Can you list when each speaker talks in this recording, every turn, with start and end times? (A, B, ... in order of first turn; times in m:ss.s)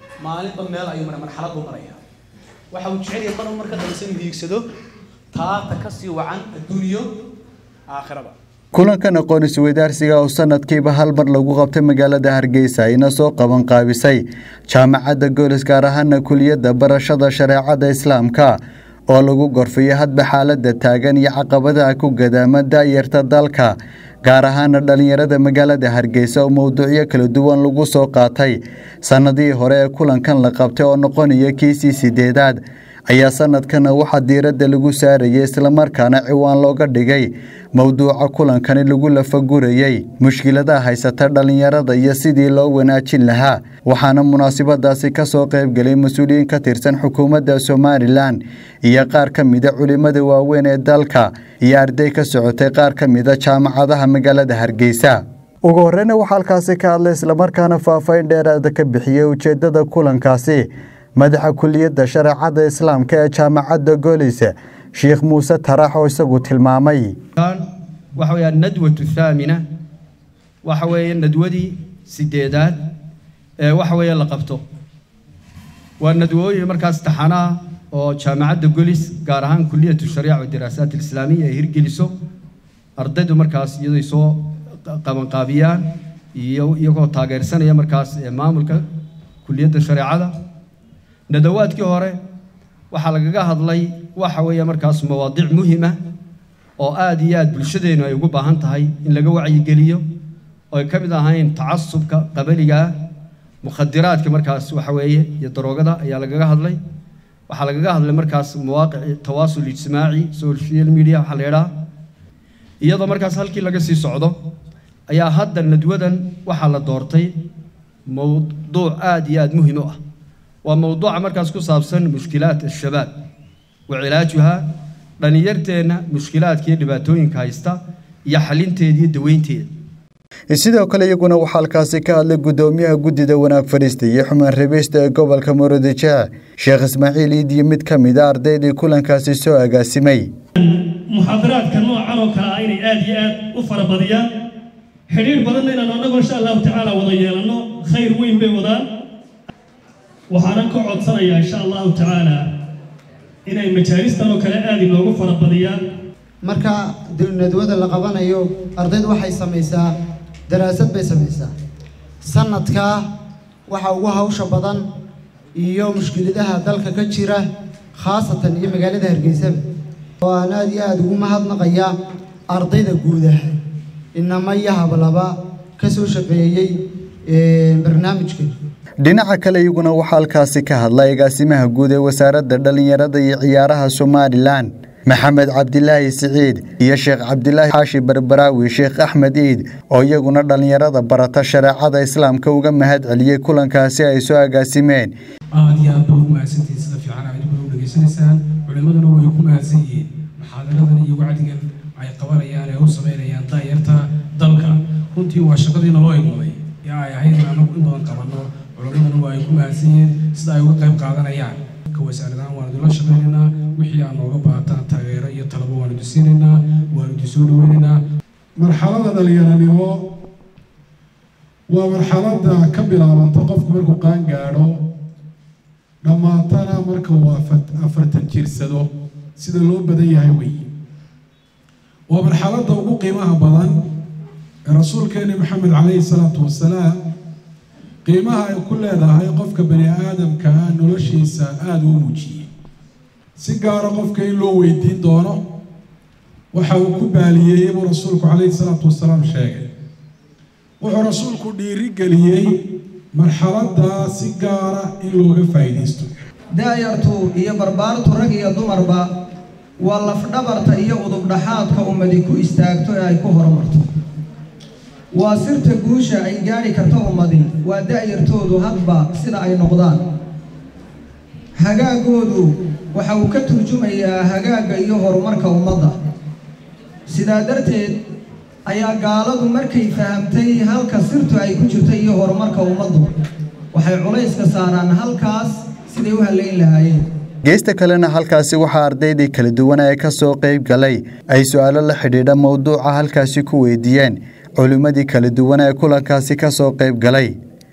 0:00.2-0:02.0 A
0:02.7-0:04.7 A
0:05.3-0:07.1 A
0:07.9-0:08.3 A
0:08.7-1:07.2 B
1:07.4-1:07.6 C
1:08.1-1:09.6 C
1:10.6-1:12.8 C
1:13.6-1:14.6 C
1:16.0-1:22.1 C
1:23.0-1:28.8 C
1:29.4-1:30.3 C
1:31.3-1:32.2 C
1:32.9-1:36.0 C
1:36.8-1:40.0 C
1:40.7-1:42.9 C
1:43.6-1:46.8 C
1:47.5-1:51.7 C
1:52.8-1:54.4 C
1:55.1-1:57.3 C
1:58.1-2:00.0 C
2:00.6-2:03.1 C
2:03.9-2:04.6 C
2:05.2-2:09.7 C
2:10.5-2:20.3 B
2:20.6-2:24.3 D
2:25.1-2:28.8 D
2:30.3-2:32.5 D
2:33.4-2:35.8 D
2:36.4-2:39.9 E
2:40.5-2:41.5 E
2:42.2-2:43.1 E
2:43.7-2:44.8 E
2:45.6-2:49.6 E
2:50.2-2:51.9 E
2:52.5-2:53.5 E
2:54.1-2:56.7 E
2:57.3-2:58.5 E
2:59.0-3:15.1 B
3:15.5-3:38.0 F
3:38.6-3:40.0 G
3:41.7-3:44.8 G
3:46.0-3:50.6 G
3:52.1-3:53.8 G
3:54.7-3:57.0 G
3:58.0-4:02.5 G
4:03.4-4:05.4 G
4:06.5-4:09.6 G
4:10.8-4:16.2 G
4:16.5-4:19.0 H
4:19.8-4:23.8 H
4:25.1-4:30.0 H
4:31.6-4:35.9 H
4:37.1-4:37.9 H
4:38.6-4:43.1 H
4:43.7-4:47.0 H
4:47.4-4:57.3 B